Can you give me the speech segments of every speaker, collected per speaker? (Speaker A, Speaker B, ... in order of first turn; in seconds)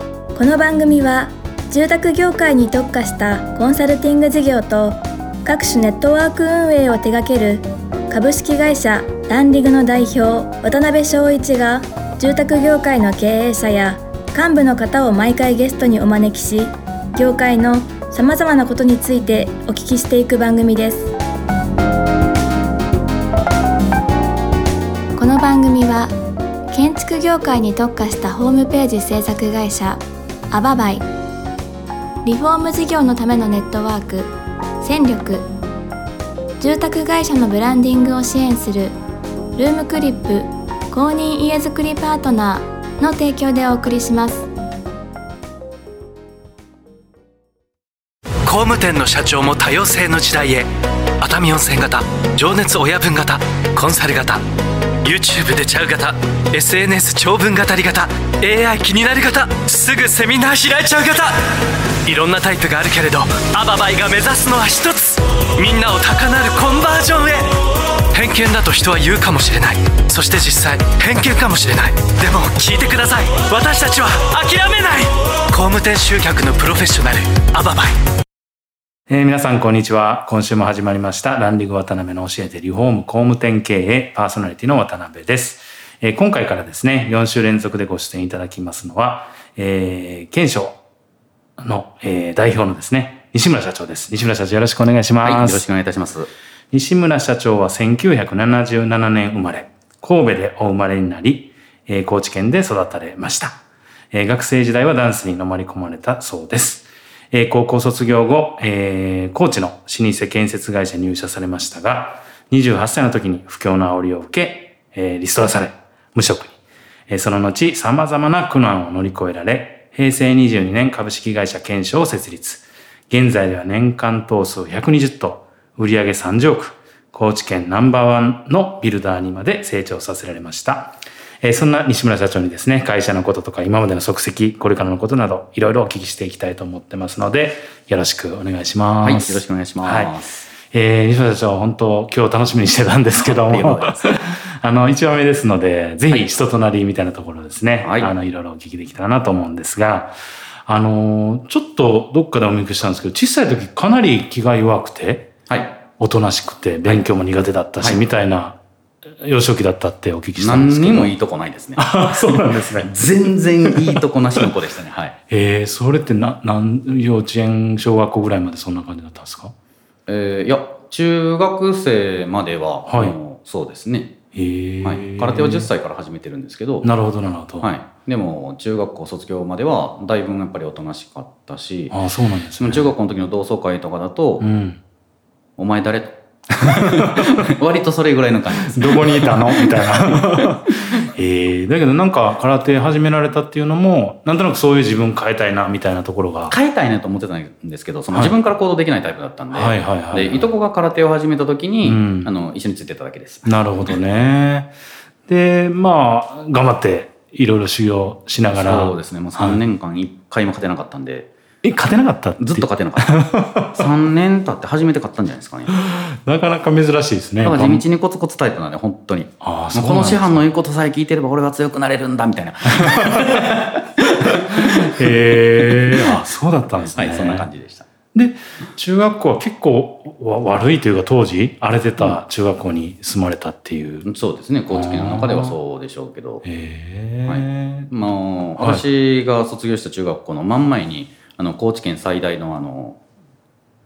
Speaker A: 0.3-21.1, 25.1-26.1, 26.7-31.1, 32.2-35.5, 36.6-39.0, 39.5-44.5
Speaker B: 48.4-54.5, 55.0-78.0
Speaker C: 79.1-90.8, 91.6-95.7, 96.7-103.6, 104.1-116.5, 117.1-150.1, 150.7-155.3, 155.9-158.6, 159.2-161.1, 161.8-164.5, 165.3-169.5, 172.9-173.2, 174.3-175.7, 176.8-177.7, 181.9-182.9, 184.4-184.8, 186.6-187.4, 188.5-196.6, 199.5-200.5, 201.8-202.3, 203.4-204.7, 205.3-209.6, 211.6-213.9, 215.7-217.8, 219.4-220.4, 222.8-223.5, 224.5-227.5, 228.1-234.1, 234.7-235.6, 236.4-238.8
Speaker D: 95.2-96.3, 139.0-140.4, 143.2-144.1, 147.8-148.1, 155.5-155.8, 160.4-165.2, 170.1-174.2, 174.8-176.9, 177.6-182.0, 182.6-184.5, 185.6-191.0, 196.5-203.6, 208.5-211.3, 212.4-213.1, 213.7-215.7, 217.4-226.2, 226.8-227.9, 234.0-236.4, 237.3-243.0